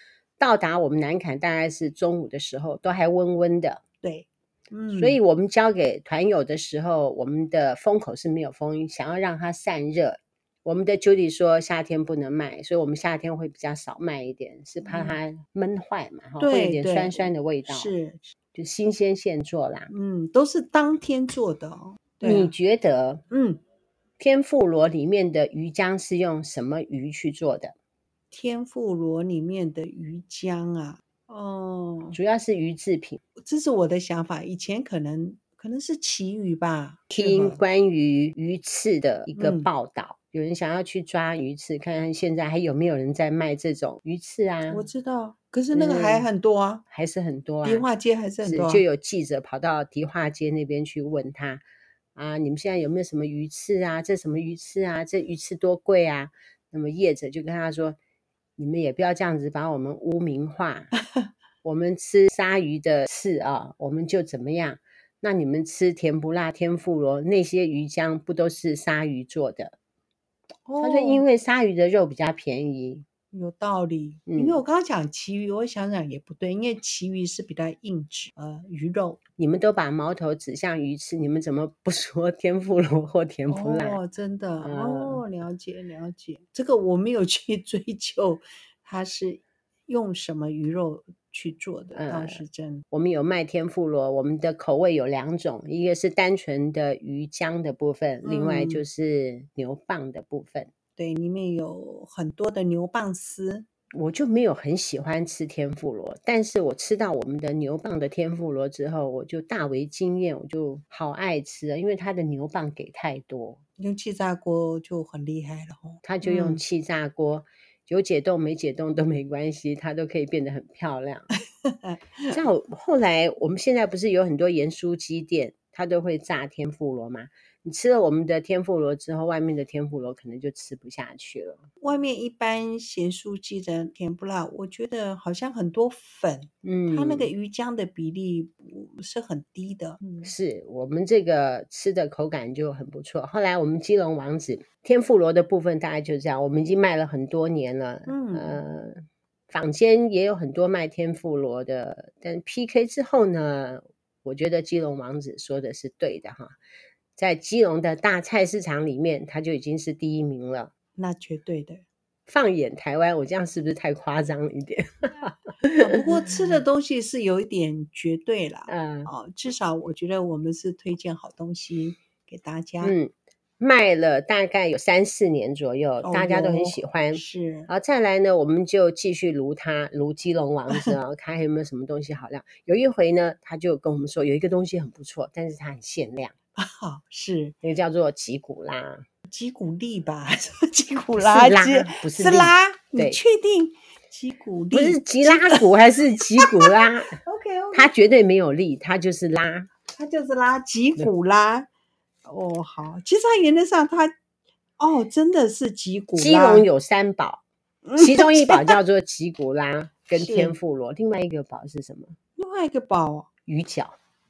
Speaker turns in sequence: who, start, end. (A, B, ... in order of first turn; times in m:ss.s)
0:00.4-0:03.8 A
0:04.0-0:05.2 B
0:04.9-0:17.9 A
0:14.8-0:15.2 B
0:16.4-0:18.3 B
0:18.5-0:19.9 A
0:19.9-0:22.5 B
0:22.2-0:23.2 A
0:23.3-0:23.6 B
0:24.2-0:27.7 A
0:28.3-0:32.2 B
0:32.1-0:33.2 A
0:33.4-0:37.6 B
0:37.1-0:44.8 A
0:39.3-0:39.7 B
0:44.7-0:46.8 B
0:45.7-0:46.3 A
0:46.9-0:47.8 A
0:47.6-0:48.8 B
0:48.4-0:51.6 A
0:52.2-0:58.0 A
0:58.6-1:00.9 A
1:01.6-1:09.8 A
1:10.6-1:11.2 B
1:10.8-1:13.0 A
1:13.3-1:19.2 B
1:14.3-1:14.6 A
1:19.4-1:24.0 A
1:23.5-1:32.8 B
1:24.6-1:25.2 A
1:31.9-1:40.7 A
1:38.2-1:38.8 B
1:41.0-1:43.7 B
1:43.9-1:53.6 A
1:53.8-1:56.6 B
1:56.0-2:01.3 A
2:01.6-2:02.3 B
2:02.3-2:11.6 A
2:11.8-2:20.3 B
2:16.6-2:17.3 A
2:20.2-2:36.5 A
2:28.1-2:28.6 B
2:37.2-2:40.7 A
2:41.0-2:41.8 B
2:42.3-2:46.1 A
2:45.8-2:52.9 B
2:48.7-2:49.1 A
2:52.8-3:06.3 A
2:56.0-2:57.7 B
3:06.6-3:07.6 B
3:07.6-3:09.0 A
3:09.3-3:15.7 B
3:11.2-3:13.2 A
3:14.7-3:17.2 A
3:16.4-3:17.9 B
3:17.7-3:19.7 A
3:19.9-3:21.7 B
3:22.2-3:24.1 B
3:24.8-3:26.6 B
3:26.2-3:27.4 A
3:27.8-3:28.8 B
3:28.0-3:32.2 A
3:30.1-3:30.6 B
3:32.4-3:33.3 B
3:33.5-3:34.0 A